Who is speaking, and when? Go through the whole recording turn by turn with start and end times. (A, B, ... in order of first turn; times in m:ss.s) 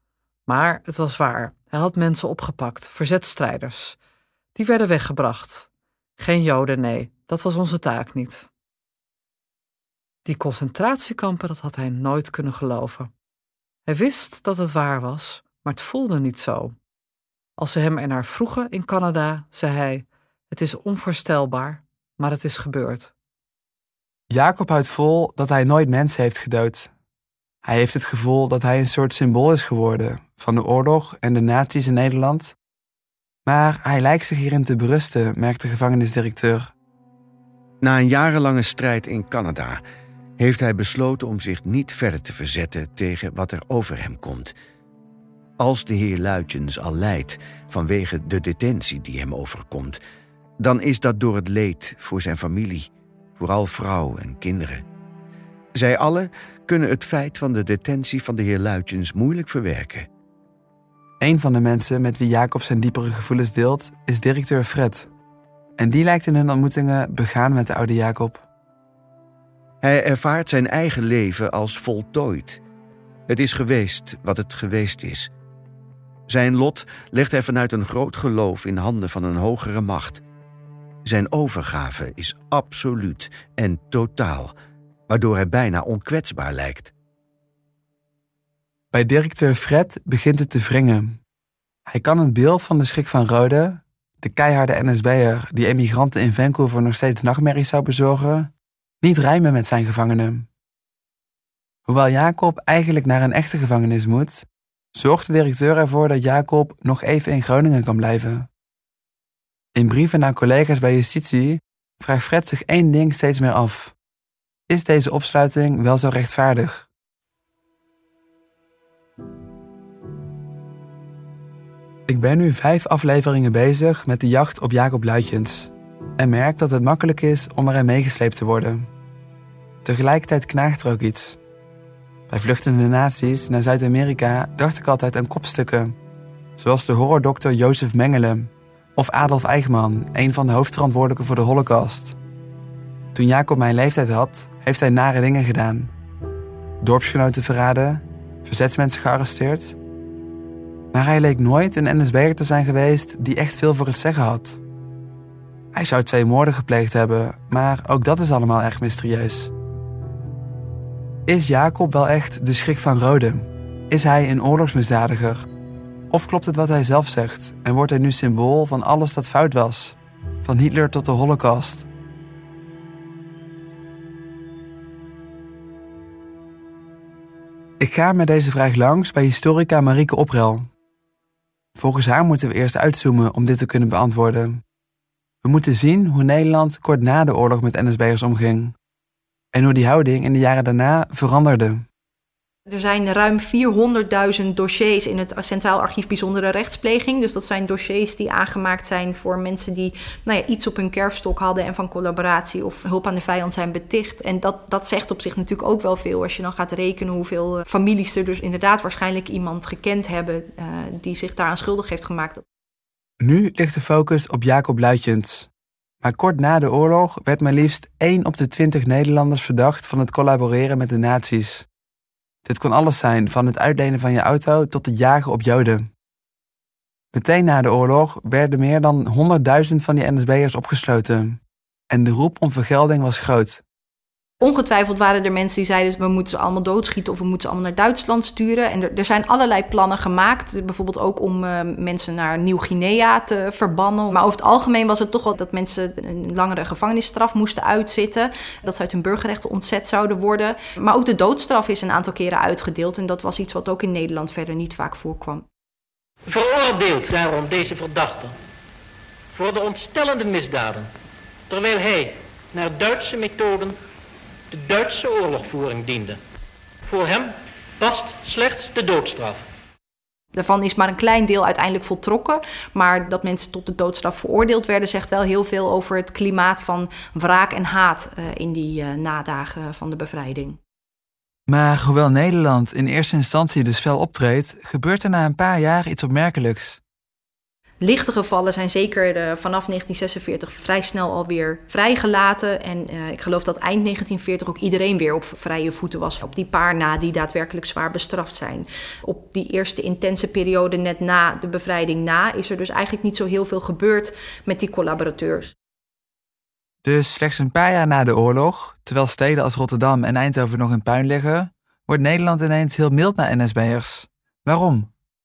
0:00.5-0:04.0 A
0:04.6-0:05.7 A
0:06.2-0:08.5 A
0:10.2-0:13.1 A
0:13.9-0:16.8 A
0:17.6-0:23.1 A
0:24.3-0:26.9 B
0:27.6-0:32.5 B
0:33.5-0:36.7 B
0:37.8-0:39.8 C
0:40.4-0:44.5 C
0:45.6-0:50.0 C
0:50.6-0:54.8 C
0:55.8-1:00.1 C
1:01.2-1:05.1 B
1:05.8-1:08.4 B
1:09.8-1:12.6 C
1:13.3-1:15.3 C
1:16.3-1:20.2 C
1:21.0-1:24.5 C
1:25.1-1:26.9 C
1:28.9-1:31.2 B
1:31.9-1:38.5 B
1:39.0-1:40.5 B
1:41.9-1:48.5 B
1:49.8-1:53.9 B
1:54.7-1:56.9 B
2:02.1-2:08.9 B
2:09.8-2:11.4 B
2:12.3-2:16.0 B
2:16.6-2:22.2 B
2:23.1-2:25.9 B
2:26.8-2:29.8 B
2:30.9-2:34.6 B
2:35.7-2:39.5 B
2:41.3-2:45.5 B
2:46.1-2:51.9 B
2:57.8-3:00.7 B
3:01.8-3:04.6 B
3:05.4-3:08.8 B
3:09.5-3:11.8 B
3:12.7-3:32.4 D
3:33.2-3:35.5 B
3:36.0-3:41.7 B
3:42.5-3:45.9 B
3:47.1-3:51.4 B
3:51.9-3:53.6 B
3:54.4-4:15.4 D
4:16.3-4:18.4 E
4:19.3-4:20.9 E
4:21.5-4:23.8 E
4:24.5-4:26.2 E
4:26.9-4:29.5 E
4:30.3-4:40.6 D
4:41.5-4:46.8 B
4:47.8-5:05.5 D
5:06.8-5:14.9 B